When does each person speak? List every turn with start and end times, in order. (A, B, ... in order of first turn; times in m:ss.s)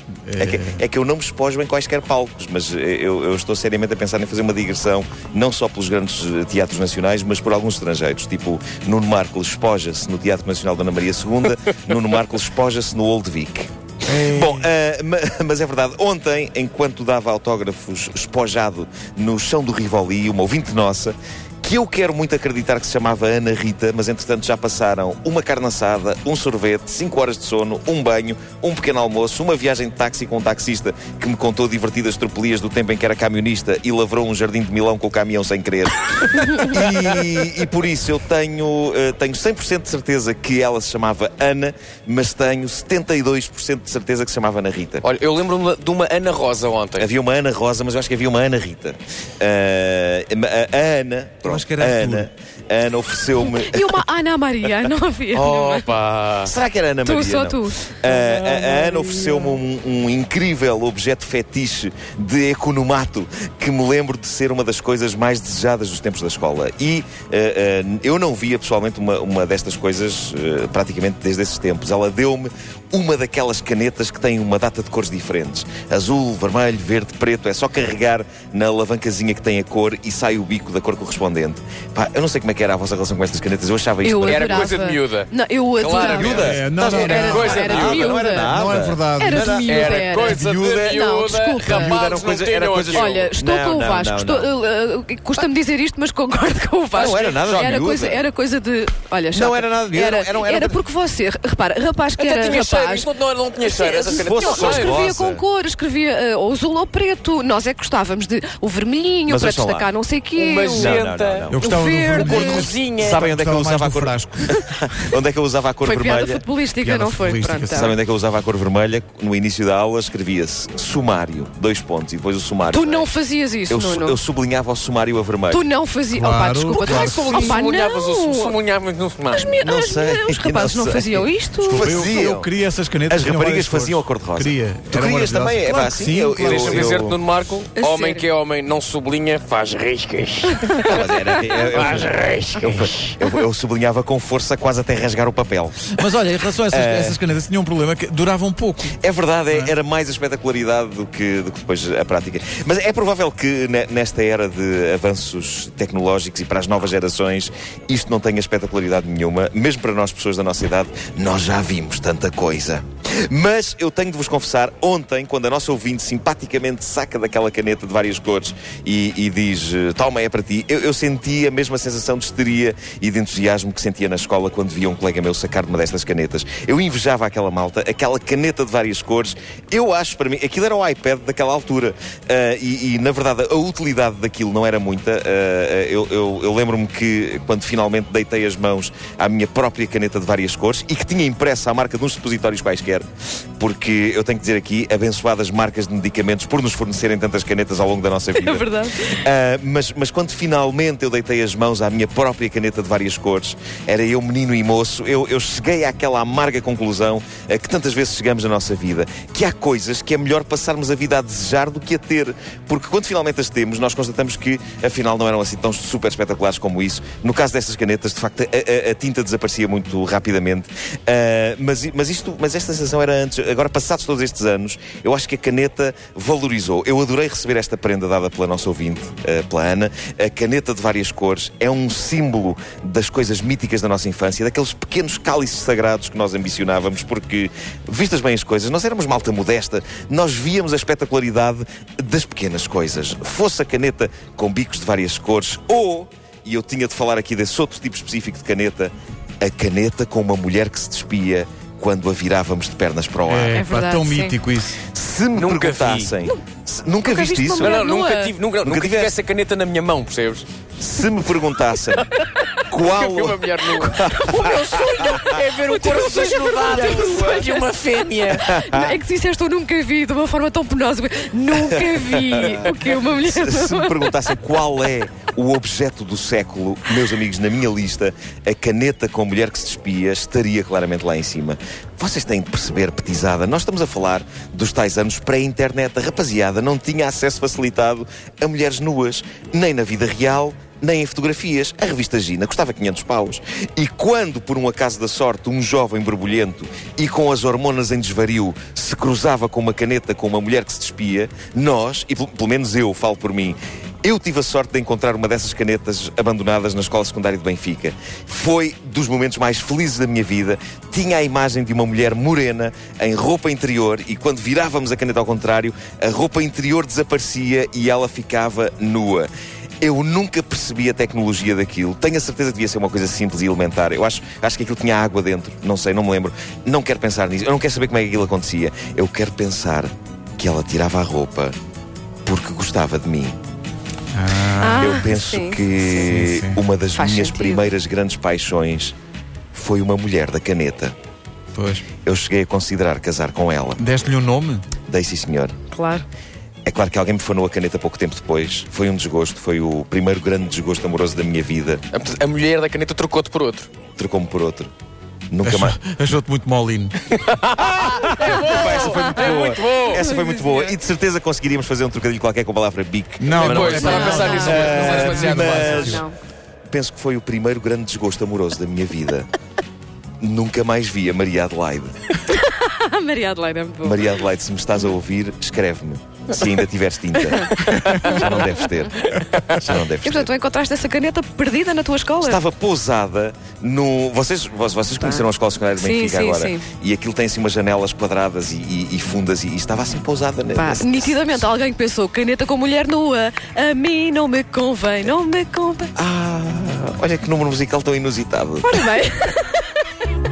0:00.3-0:00.8 A
0:00.4-0:45.0 B
0:14.1-0:14.7 A
0:45.0-0:47.1 C
0:47.0-0:54.0 B
0:51.4-0:52.3 A
0:53.4-0:55.9 D
0:55.3-0:56.5 C
0:56.4-1:24.6 B
0:57.0-0:58.4 D
1:24.0-1:28.5 D
1:24.3-1:28.3 C
1:26.0-1:31.0 B
1:26.3-1:27.5 A
1:28.3-1:29.7 A
1:29.2-1:32.0 D
1:29.6-1:33.3 C
1:31.6-1:34.5 B
1:32.9-1:52.7 D
1:36.9-1:38.2 B
1:37.0-1:37.9 C
1:39.3-1:40.9 B
1:42.2-1:45.0 C
1:44.1-1:45.5 B
1:49.3-1:49.9 B
1:50.4-1:53.3 C
1:50.7-1:51.8 B
1:51.5-1:54.5 A
1:53.0-1:56.4 B
1:55.8-1:58.0 D
1:56.8-1:57.8 A
1:57.7-2:03.1 B
2:02.7-2:04.2 D
2:03.7-2:05.6 B
2:05.5-2:08.6 D
2:06.2-2:07.5 A
2:06.7-2:09.6 C
2:09.3-2:12.0 D
2:09.6-2:12.5 B
2:11.6-2:16.9 A
2:13.1-2:17.2 B
2:16.4-2:21.1 C
2:17.8-2:18.2 D
2:20.8-2:26.0 B
2:21.6-2:23.1 C
2:25.9-2:29.0 A
2:26.7-2:27.2 B
2:29.0-3:13.0 B
3:13.6-4:13.6 B
3:18.3-3:19.1 D
4:13.3-4:14.8 A
4:13.5-4:14.4 D
4:14.9-4:17.8 B
4:15.4-4:16.1 C
4:17.0-4:18.4 D
4:17.6-4:20.5 C
4:18.6-4:19.1 B
4:20.8-4:22.1 B
4:22.7-4:25.2 B
4:22.8-4:28.5 C
4:25.8-4:27.7 D
4:28.4-4:28.9 B
4:28.4-4:34.2 D
4:31.5-4:32.7 B
4:32.4-4:32.7 C
4:33.2-5:19.3 B
5:19.8-5:31.6 B
5:32.2-5:33.4 B
5:34.1-5:35.0 A
5:34.6-5:35.9 D
5:34.8-5:38.9 B
5:36.1-5:36.6 A
5:37.0-5:37.6 D
5:39.5-5:40.9 B
5:41.6-5:41.8 A
5:42.0-5:43.8 B
5:43.8-5:44.6 A
5:44.9-5:45.6 B
5:45.7-5:46.0 D
5:46.6-5:51.8 B
5:51.9-5:53.7 C
5:54.0-5:54.7 B
5:55.3-5:55.8 B
5:55.4-5:57.0 A
5:57.2-6:00.1 C
5:57.7-6:06.0 B
6:00.0-6:00.7 D
6:03.2-6:06.0 A
6:03.3-6:05.9 C
6:03.6-6:06.1 D
6:06.7-6:09.3 B
6:10.2-6:11.9 B
6:12.3-6:14.0 D
6:13.8-6:20.3 B
6:17.3-6:18.2 D
6:20.0-6:22.4 D
6:22.2-6:31.4 B
6:25.0-6:25.2 D
6:25.8-6:26.6 D
6:30.6-6:35.9 D
6:36.0-6:38.7 B
6:38.6-6:39.8 D